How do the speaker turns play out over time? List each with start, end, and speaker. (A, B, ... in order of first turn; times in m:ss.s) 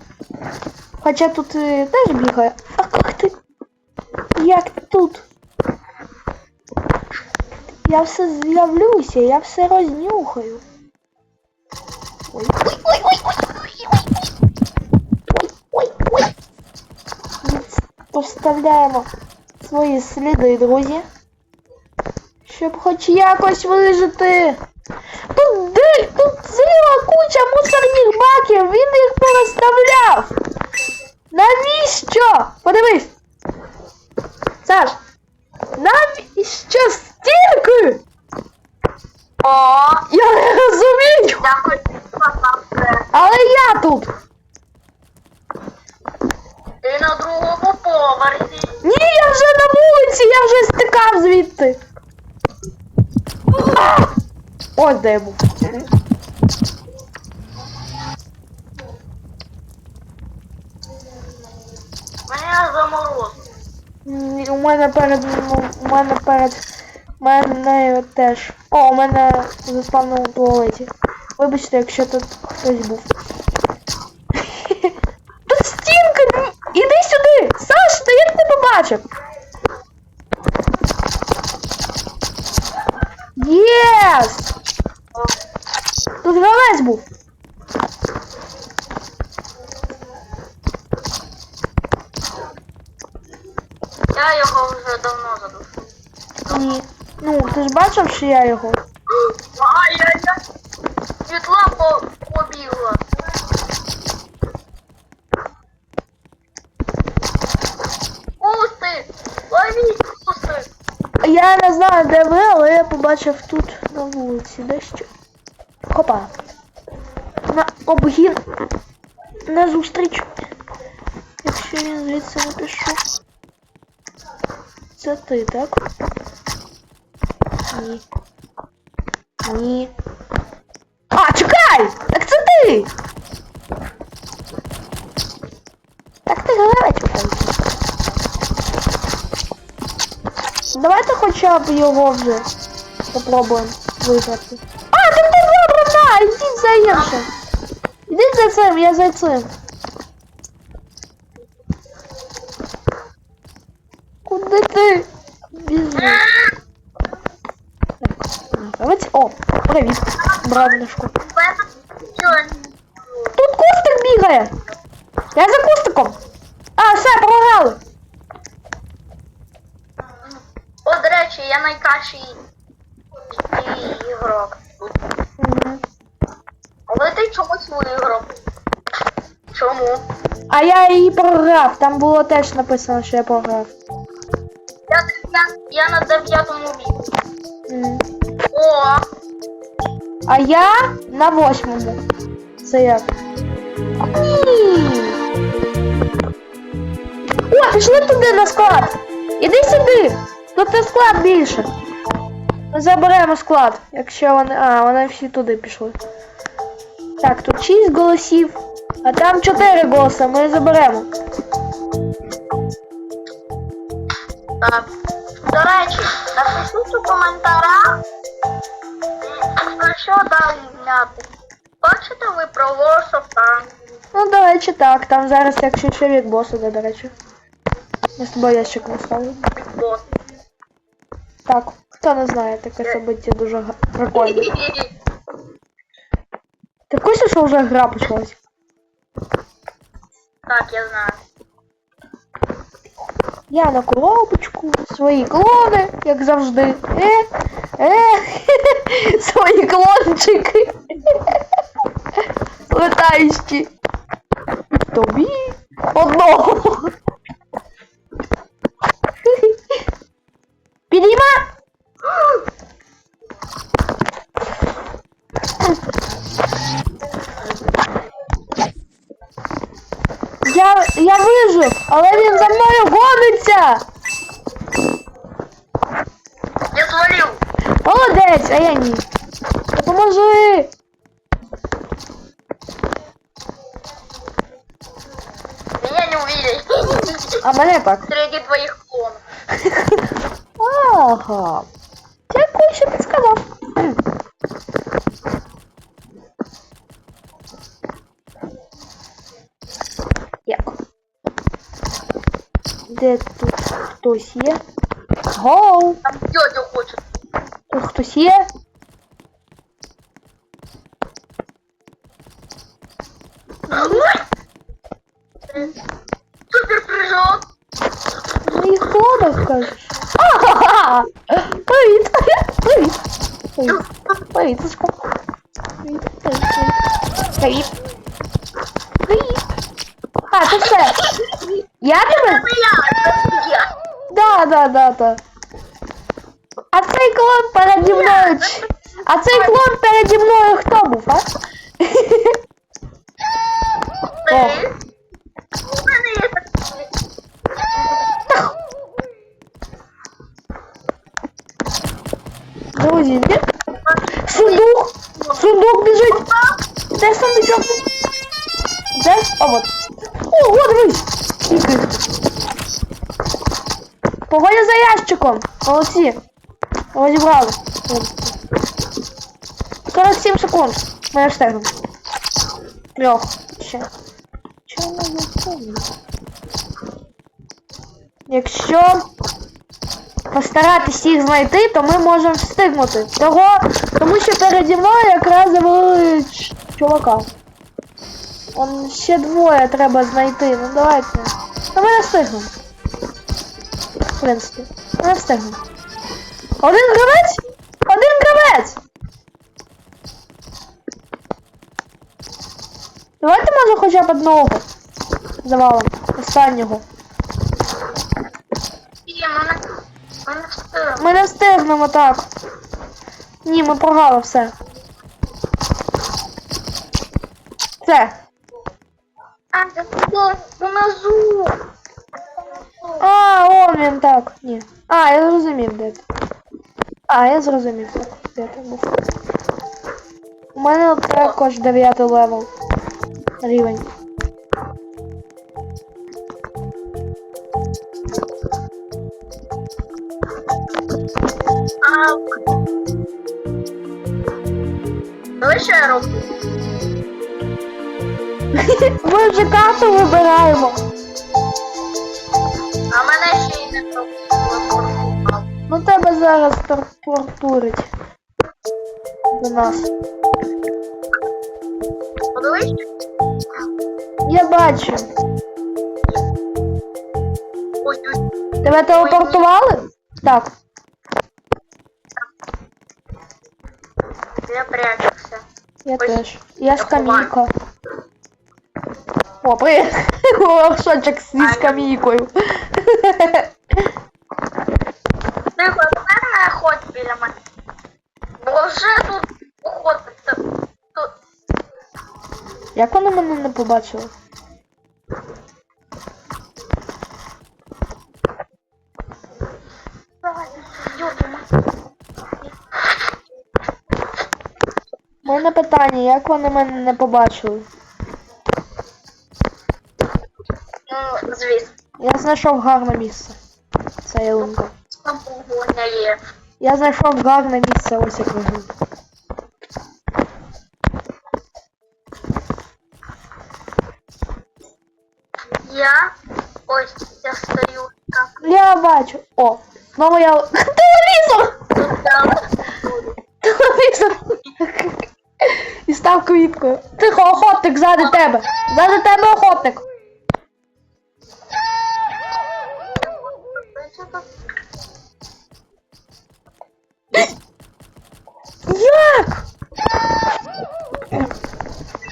0:01.0-0:03.3 A
0:04.3-0:05.2 A
0:07.8-0:10.6 A
0:12.3-0:13.5 A
0:15.7-0:16.3 A
0:17.4-0:19.1 A
0:19.6-0:21.1 A
0:22.4-0:24.6 A
0:25.3-0:30.3 A
0:31.3-0:33.1 A
0:34.6-0:35.0 A
0:35.8-0:38.0 A
0:39.4-0:40.0 B
0:40.1-0:41.4 A
0:41.4-0:43.1 B
0:43.1-0:44.1 A
0:46.8-0:48.8 B
0:48.8-0:51.8 A
0:54.8-0:55.8 A
1:02.3-1:03.4 B
1:04.0-1:06.6 A
1:07.2-1:13.1 A
1:14.4-1:14.9 A
1:15.5-1:19.1 A
1:23.4-1:24.5 A
1:26.2-1:27.0 A
1:34.1-1:35.9 B
1:36.4-1:36.7 B
1:36.5-1:38.8 A
1:39.2-1:40.4 B
1:41.3-1:43.0 B
1:48.4-1:50.7 B
1:51.2-1:55.1 A
1:55.9-1:56.3 A
1:57.5-1:58.4 A
1:59.5-2:00.3 A
2:01.4-2:03.0 A
2:05.0-2:05.8 A
2:07.7-2:08.0 A
2:09.4-2:09.9 A
2:11.1-2:12.9 A
2:16.2-2:17.6 A
2:20.7-2:22.5 A
2:23.1-2:27.3 A
2:26.8-2:27.2 B
2:28.1-2:29.5 A
2:34.2-2:36.2 A
2:35.9-2:36.5 B
2:38.0-2:41.1 A
2:40.2-2:42.7 B
2:43.4-2:44.5 A
2:45.3-2:46.2 A
2:46.8-2:47.8 A
2:50.2-2:52.4 B
2:53.3-2:54.9 B
2:55.4-2:55.8 A
2:56.9-2:58.3 B
2:59.5-3:00.0 B
3:00.5-3:03.7 A
3:04.9-3:07.0 B
3:07.7-3:08.0 A
3:08.5-3:09.0 B
3:10.3-3:12.0 A
3:12.6-3:13.1 A
3:14.1-3:15.2 A
3:17.5-3:21.7 A
3:22.7-3:26.0 A
3:27.2-3:31.1 A
3:34.6-3:34.9 B
3:35.5-3:38.0 B
3:39.2-3:41.3 B
3:41.8-3:43.7 B
3:44.1-3:47.1 A
3:48.2-3:49.4 A
3:49.5-3:50.0 B
3:51.4-3:54.5 A
3:54.1-3:54.9 B
3:56.9-3:58.4 A
4:00.5-4:01.2 B
4:03.5-4:07.3 A
4:07.8-4:11.4 A
4:12.7-4:13.7 A
4:14.9-4:16.9 A
4:19.2-4:19.6 A
4:20.9-4:21.4 A
4:30.4-4:33.8 A
4:32.1-4:32.6 B
4:36.7-4:37.4 B
4:37.8-4:39.0 A
4:39.7-4:40.7 A
4:45.8-4:47.4 B
4:47.4-4:48.0 A
4:48.1-4:49.2 B
4:50.6-4:51.7 A
4:52.3-4:54.0 A
5:00.4-5:00.8 A
5:02.9-5:04.6 A
5:05.3-5:06.0 A
5:06.0-5:07.0 B
5:07.7-5:08.5 A
5:13.7-5:14.0 A
5:13.7-5:14.2 B
5:15.5-5:15.7 B
5:16.5-5:17.4 B
5:18.4-5:23.0 A
5:23.6-5:24.9 A
5:25.8-5:26.8 A
5:27.4-5:27.7 A
5:29.0-5:29.4 A
5:30.3-5:31.0 A
5:30.6-5:33.7 B
5:31.8-5:32.4 A
5:34.1-5:35.2 A
5:36.7-5:41.3 A
5:37.8-5:38.6 B
5:39.3-5:39.6 B
5:41.8-5:42.4 A
5:44.2-5:44.7 B
5:44.3-5:44.6 A
5:45.7-5:46.9 B
5:52.7-5:53.4 A
5:53.8-5:55.5 B
5:54.2-5:56.2 A
5:56.1-5:56.6 B
5:57.0-5:57.8 A
5:58.9-5:59.7 A
6:00.3-6:01.9 A
6:04.3-6:06.2 A
6:06.9-6:08.3 A
6:09.9-6:11.7 A
6:12.9-6:13.9 A
6:14.6-6:15.8 A
6:18.3-6:19.0 A
6:20.3-6:27.3 A
6:28.5-6:32.5 A
6:34.2-6:35.6 A
6:36.6-6:38.8 A
6:43.2-6:44.6 A
6:45.4-6:46.8 A
6:49.0-6:51.0 B
6:51.0-6:52.3 A
6:53.4-6:54.5 A
6:57.8-6:58.2 A
6:59.5-7:01.6 B
7:03.0-7:06.0 A
7:07.1-7:09.0 A
7:10.5-7:12.5 A
7:11.1-7:11.4 B
7:13.4-7:13.8 A
7:21.8-7:22.2 B
7:25.4-7:26.3 B
7:28.6-7:30.8 A
7:32.9-7:35.5 B
7:35.7-7:37.9 A
7:39.3-7:39.9 A
7:42.3-7:42.7 B
7:44.2-7:45.1 A
7:47.8-7:48.2 B
7:48.6-7:50.5 A
7:48.8-7:49.5 B
7:54.5-7:55.4 B
7:55.8-7:57.5 A
7:56.7-7:57.3 B
7:59.4-8:03.5 A
8:01.4-8:01.9 B
8:05.6-8:07.3 B
8:08.4-8:10.4 B
8:12.7-8:14.1 A
8:20.2-8:21.5 B
8:25.2-8:27.7 A
8:30.9-8:31.7 B
8:32.0-8:33.4 A
8:34.0-8:34.7 A
8:35.0-8:36.2 B
8:36.6-8:38.7 A
8:45.6-8:46.1 B
8:46.7-8:48.4 B
8:48.4-8:51.6 A
8:51.8-8:53.2 B
8:53.4-8:59.8 A
8:57.9-8:58.2 B
9:03.1-9:04.3 B
9:08.7-9:09.3 A